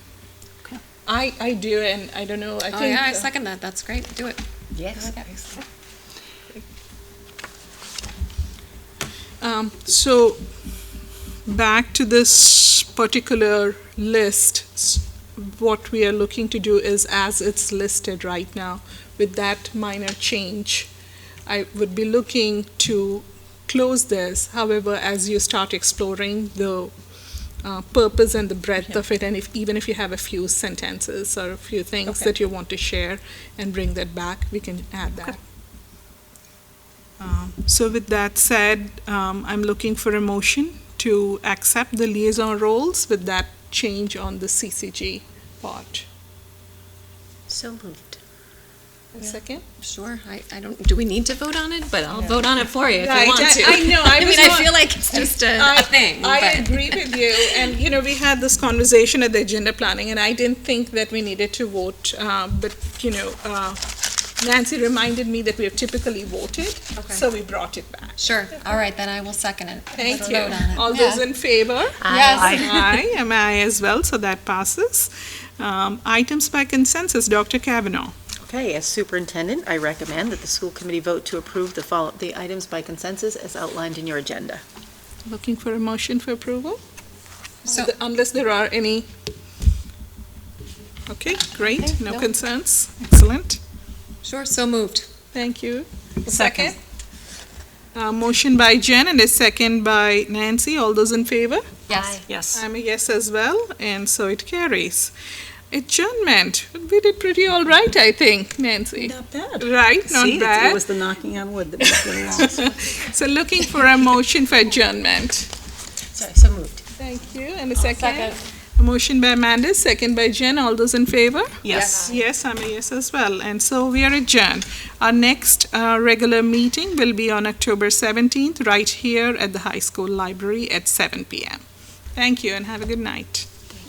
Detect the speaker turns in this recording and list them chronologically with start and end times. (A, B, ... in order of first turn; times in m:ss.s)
0:01.0-0:03.3 A
0:02.7-0:05.6 B
0:04.7-0:05.1 C
0:09.4-0:10.4 A
0:11.4-0:20.9 A
0:21.4-0:26.9 A
0:27.6-0:35.4 A
0:37.2-0:46.1 A
0:47.5-0:48.2 C
0:49.1-0:49.6 A
0:49.2-0:57.7 B
0:53.0-1:03.8 A
1:04.4-1:08.2 A
1:07.0-1:07.2 B
1:08.2-1:11.3 B
1:09.9-1:18.1 A
1:12.0-1:12.7 C
1:12.0-1:12.9 B
1:12.4-1:12.7 D
1:18.4-1:24.6 C
1:25.2-1:26.8 A
1:27.6-1:29.1 A
1:27.6-1:27.9 B
1:31.1-1:33.6 A
1:31.7-1:32.3 B
1:34.2-1:35.1 B
1:35.3-1:36.8 A
1:36.4-1:36.7 D
1:37.9-1:41.6 A
1:41.9-1:42.2 B
1:41.9-1:42.2 C
1:42.3-1:42.6 D
1:42.5-1:45.1 A
1:45.7-1:50.8 A
1:49.0-1:49.6 C
1:50.0-1:52.6 D
1:51.8-1:55.5 A
1:56.1-1:56.8 C
1:57.0-2:11.6 A
1:57.8-1:58.4 B
2:01.6-2:02.1 D
2:01.7-2:02.2 B
2:12.2-2:13.5 A